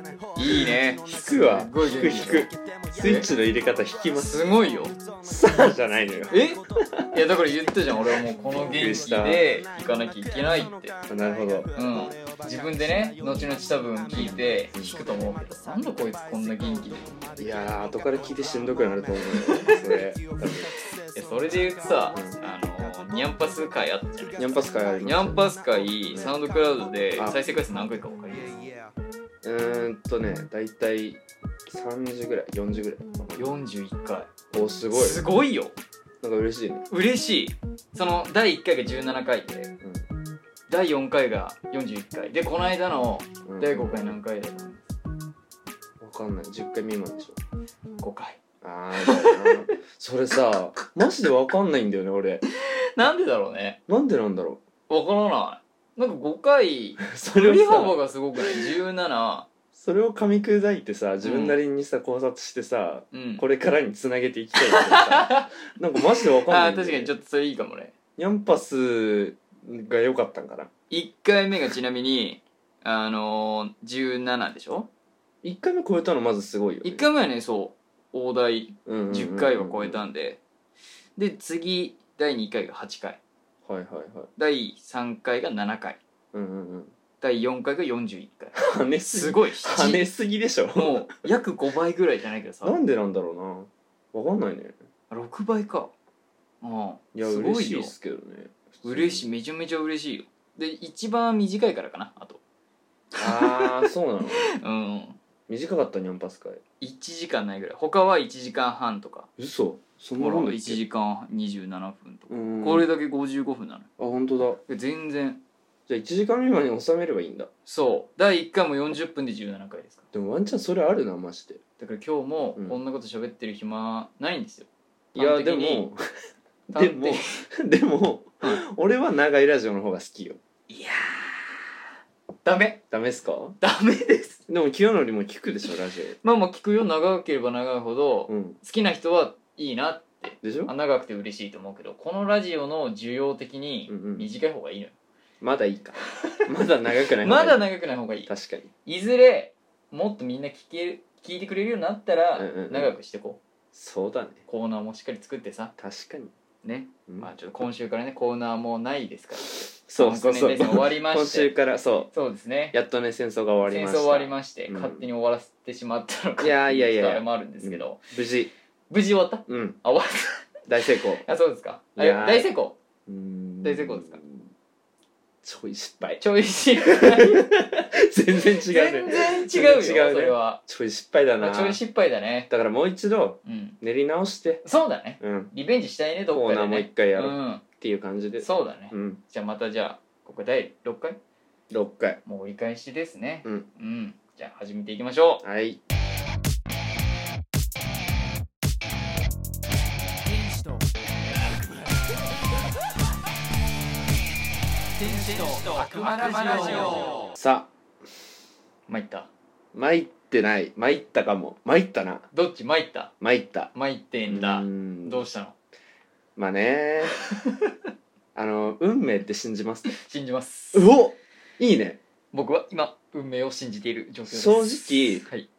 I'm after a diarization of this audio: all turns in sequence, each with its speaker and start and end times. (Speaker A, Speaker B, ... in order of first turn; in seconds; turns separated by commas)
Speaker A: 0.3-3.3, Speaker B: 1.1-4.5, Speaker C: 3.0-3.3, Speaker A: 4.2-5.0, Speaker B: 5.2-7.1, Speaker A: 6.3-6.6, Speaker A: 7.1-10.9, Speaker C: 8.5-9.0, Speaker B: 8.6-9.5, Speaker B: 11.1-11.7, Speaker A: 11.7-17.3, Speaker B: 14.1-15.0, Speaker B: 17.4-20.7, Speaker C: 19.6-20.0, Speaker A: 21.1-24.5, Speaker B: 22.1-22.4, Speaker B: 24.4-25.5, Speaker A: 25.0-28.6, Speaker B: 26.1-26.3, Speaker B: 27.1-27.4, Speaker B: 29.4-33.6, Speaker A: 33.4-34.3, Speaker B: 34.5-35.2, Speaker A: 34.9-35.8, Speaker B: 36.2-36.9, Speaker A: 36.9-39.7, Speaker A: 40.7-45.0, Speaker B: 43.4-44.1, Speaker B: 46.0-47.4, Speaker A: 48.0-48.4, Speaker B: 48.6-52.4, Speaker A: 49.0-49.6, Speaker A: 53.0-53.8, Speaker B: 53.9-54.6, Speaker A: 54.9-59.5, Speaker B: 57.0-58.6, Speaker B: 59.7-67.1, Speaker A: 61.2-61.6, Speaker A: 63.1-63.4, Speaker A: 64.5-65.5, Speaker A: 66.5-67.9, Speaker B: 68.2-70.7, Speaker A: 70.9-74.9, Speaker B: 75.4-77.1, Speaker A: 76.8-80.4, Speaker B: 78.8-80.0, Speaker A: 81.2-83.2, Speaker B: 83.6-84.3, Speaker A: 84.4-86.0, Speaker B: 86.3-86.9, Speaker A: 87.2-90.0, Speaker B: 88.5-91.1, Speaker A: 90.7-92.8, Speaker B: 92.6-94.7, Speaker A: 95.1-95.9, Speaker A: 96.6-97.9, Speaker B: 97.1-99.3, Speaker A: 98.8-102.4, Speaker A: 103.2-103.9, Speaker B: 103.2-104.5, Speaker A: 104.5-105.2, Speaker B: 105.5-106.6, Speaker A: 106.8-109.3, Speaker B: 109.4-110.8, Speaker A: 110.2-113.9, Speaker B: 112.3-112.8, Speaker B: 114.0-114.6, Speaker A: 114.7-115.4, Speaker B: 115.9-117.5, Speaker A: 117.7-120.0, Speaker B: 120.1-121.6, Speaker A: 121.8-125.9, Speaker B: 125.1-126.0, Speaker A: 126.7-127.4, Speaker B: 126.7-130.4, Speaker A: 130.7-131.6, Speaker A: 132.4-132.8, Speaker B: 132.9-133.6, Speaker A: 133.6-134.4, Speaker B: 134.5-136.2, Speaker A: 136.2-144.9, Speaker B: 138.3-138.6, Speaker B: 140.4-140.7, Speaker B: 143.9-144.3, Speaker B: 145.4-147.6, Speaker A: 147.2-148.3, Speaker B: 148.3-148.7, Speaker A: 148.8-153.4, Speaker B: 152.3-152.9, Speaker B: 153.7-154.4, Speaker A: 154.5-155.7, Speaker B: 155.8-156.3, Speaker A: 156.6-161.5, Speaker B: 159.5-162.1, Speaker A: 162.1-162.8, Speaker B: 162.7-165.1, Speaker A: 163.7-168.1, Speaker B: 166.4-168.5, Speaker A: 168.9-170.5, Speaker B: 169.5-169.8, Speaker B: 170.7-171.2, Speaker A: 171.2-172.8, Speaker B: 171.9-172.5, Speaker B: 173.1-174.5, Speaker A: 173.6-174.2, Speaker B: 175.4-176.2, Speaker A: 176.2-177.4, Speaker B: 176.9-181.8, Speaker A: 178.6-180.6, Speaker A: 181.4-182.5, Speaker B: 182.5-184.6, Speaker A: 183.4-183.8, Speaker A: 184.6-187.6, Speaker B: 185.2-185.5, Speaker B: 186.3-189.2, Speaker A: 188.4-191.2, Speaker B: 191.7-192.2, Speaker A: 192.2-195.4, Speaker B: 195.4-195.8, Speaker C: 200.2-200.9, Speaker C: 204.9-207.3, Speaker B: 207.3-207.7, Speaker A: 208.9-209.3, Speaker B: 209.7-212.3, Speaker A: 212.3-213.1, Speaker B: 213.2-213.7, Speaker A: 213.7-215.6, Speaker B: 214.3-215.2, Speaker B: 216.3-217.1, Speaker A: 217.4-217.7, Speaker B: 218.3-219.9, Speaker A: 220.0-220.9, Speaker B: 220.7-222.0, Speaker A: 222.3-225.5, Speaker B: 224.3-225.2